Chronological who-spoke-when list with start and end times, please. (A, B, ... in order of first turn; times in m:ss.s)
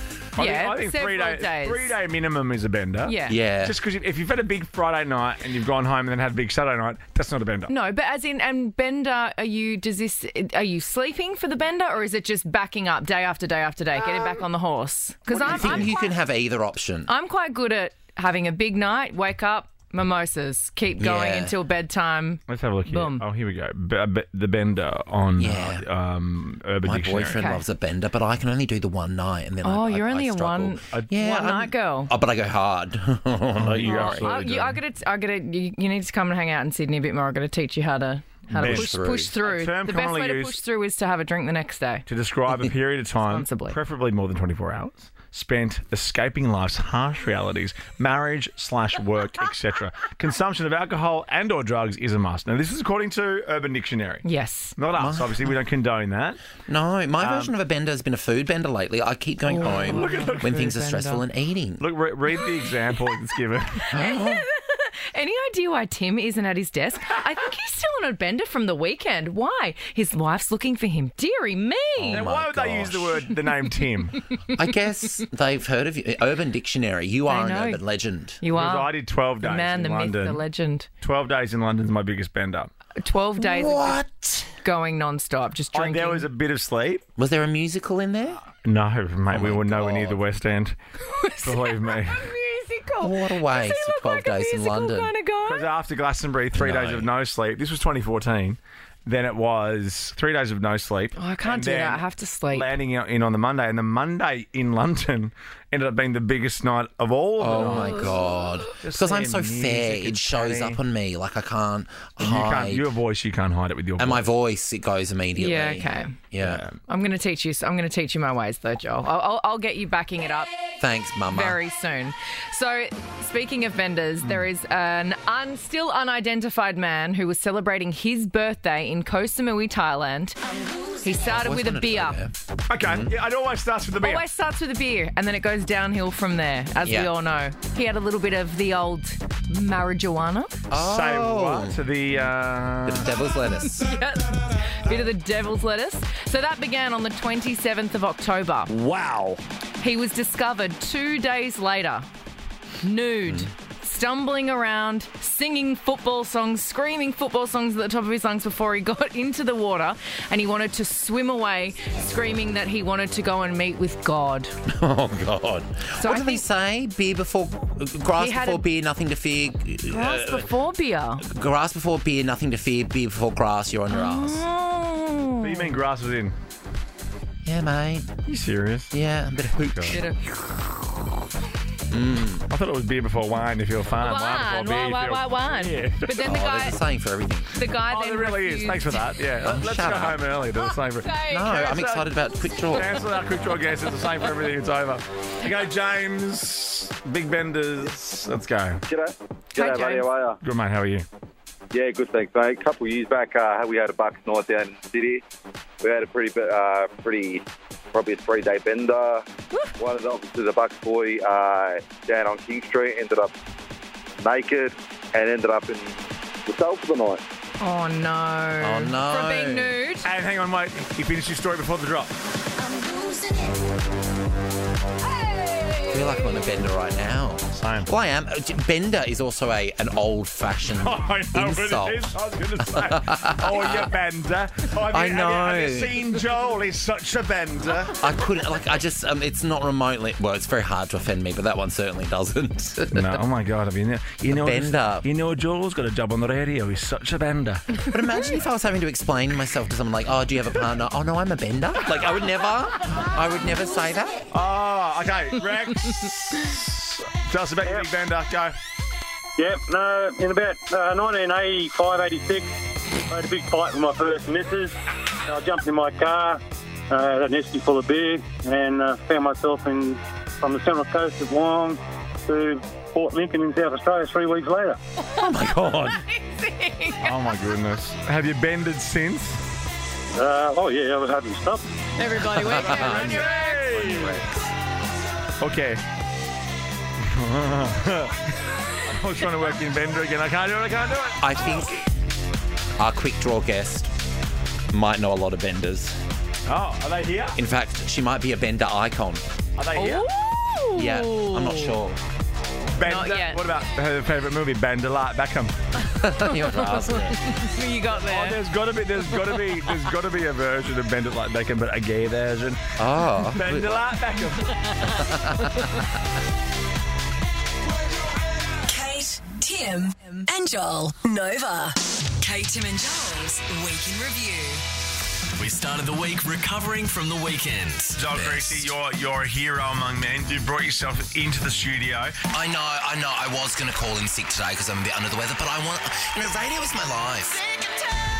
0:00.4-0:01.9 A
0:00.4-0:07.7 B
0:03.1-0:03.4 A
0:03.3-0:03.8 C
0:07.7-0:16.1 A
0:15.3-0:17.1 C
0:15.4-0:15.9 B
0:17.1-0:23.2 A
0:21.0-0:21.6 C
0:22.5-0:27.4 B
0:25.4-0:25.8 C
0:26.8-0:34.4 C
0:27.3-0:27.6 A
0:29.6-0:32.1 A
0:33.6-0:34.8 B
0:33.8-0:42.0 A
0:38.5-0:39.3 C
0:38.6-0:40.6 B
0:42.1-0:54.2 B
0:43.2-0:43.8 A
0:54.2-0:54.8 A
0:54.8-0:56.4 B
0:54.9-0:55.5 C
0:56.7-1:01.9 C
0:57.2-0:57.5 B
0:59.5-1:01.2 A
0:59.8-1:00.8 B
1:01.8-1:03.9 B
1:03.8-1:12.3 A
1:03.9-1:04.5 C
1:12.0-1:13.2 C
1:12.1-1:14.2 B
1:14.5-1:18.4 C
1:17.3-1:17.8 A
1:18.4-1:20.9 A
1:18.5-1:20.4 B
1:21.0-1:22.7 B
1:23.0-1:26.3 A
1:23.4-1:24.5 C
1:25.7-1:27.0 B
1:27.2-1:28.4 C
1:28.6-1:30.8 B
1:29.3-1:30.2 C
1:31.0-1:35.7 A
1:31.4-1:32.3 B
1:33.0-1:35.1 C
1:35.4-1:48.1 B
1:36.5-1:37.1 C
1:41.2-1:42.7 A
1:47.4-1:52.9 C
1:47.6-1:48.2 A
1:48.8-1:50.8 B
1:52.2-1:54.3 B
1:54.0-1:56.6 C
1:55.4-1:56.2 A
1:56.4-1:56.8 B
1:56.9-2:00.5 A
2:00.8-2:01.6 C
2:01.3-2:10.4 A
2:11.0-2:12.2 A
2:11.2-2:13.1 C
2:12.7-2:14.2 B
2:14.0-2:20.6 A
2:16.8-2:17.1 C
2:20.7-2:21.8 C
2:20.7-2:23.1 B
2:22.8-2:23.9 C
2:23.7-2:28.7 A
2:28.7-2:29.4 B
2:29.8-2:32.1 A
2:32.8-2:44.5 A
2:44.7-2:50.5 C
2:46.0-2:46.4 A
2:48.2-2:48.7 A
2:49.9-2:51.2 A
2:51.2-2:54.4 C
2:53.9-2:55.8 A
2:55.4-2:56.4 B
2:57.4-2:58.2 C
2:58.3-3:00.0 B
2:58.9-3:00.0 C
2:59.9-3:00.3 A
3:01.9-3:02.5 C
3:02.5-3:06.2 B
3:04.0-3:06.8 A
3:06.2-3:07.5 C
3:07.5-3:09.2 A
3:07.9-3:12.1 B
3:09.4-3:10.2 C
3:10.9-3:11.6 A
3:11.2-3:13.0 C
3:12.7-3:18.8 B
3:18.9-3:20.4 D
3:19.6-3:20.1 A
3:20.4-3:21.1 B
3:21.7-3:25.2 D
3:25.8-3:29.2 D
3:29.8-3:33.3 D
3:34.2-3:37.2 D
3:37.6-3:40.1 A
3:38.6-3:39.8 C
3:40.0-3:42.1 B
3:45.9-3:53.9 C
3:47.6-3:47.9 B
3:50.7-3:58.0 B
3:54.8-3:56.0 C
3:58.0-4:03.2 C
4:02.9-4:07.8 B
4:04.3-4:05.1 C
4:07.9-4:14.3 C
4:11.9-4:12.2 B
4:14.3-4:18.6 B
4:19.4-4:22.5 E
4:23.1-4:24.8 E
4:25.3-4:34.8 E
4:35.2-4:36.0 C
4:35.9-4:37.2 A
4:37.0-4:39.4 B
4:40.2-4:41.6 E
4:42.0-4:44.1 A
4:42.4-4:44.3 C
4:42.5-4:44.2 B
4:45.4-4:45.8 B
4:47.0-4:51.7 B
4:51.2-4:51.8 C
4:52.8-4:53.9 C
4:54.7-4:56.0 C
4:56.5-4:57.4 B
4:57.4-4:59.2 C
4:59.6-5:00.1 B
4:59.8-5:01.8 A
5:00.7-5:02.0 C
5:02.7-5:05.6 B
5:02.8-5:03.4 A
5:05.8-5:07.2 C
5:06.0-5:08.4 A
5:08.0-5:12.7 B
5:12.8-5:14.0 C
5:13.3-5:14.7 B
5:14.8-5:15.9 C
5:18.6-5:24.6 F
5:25.4-5:28.0 G
5:28.0-5:32.2 B
5:28.1-5:28.5 C
5:32.3-5:37.4 C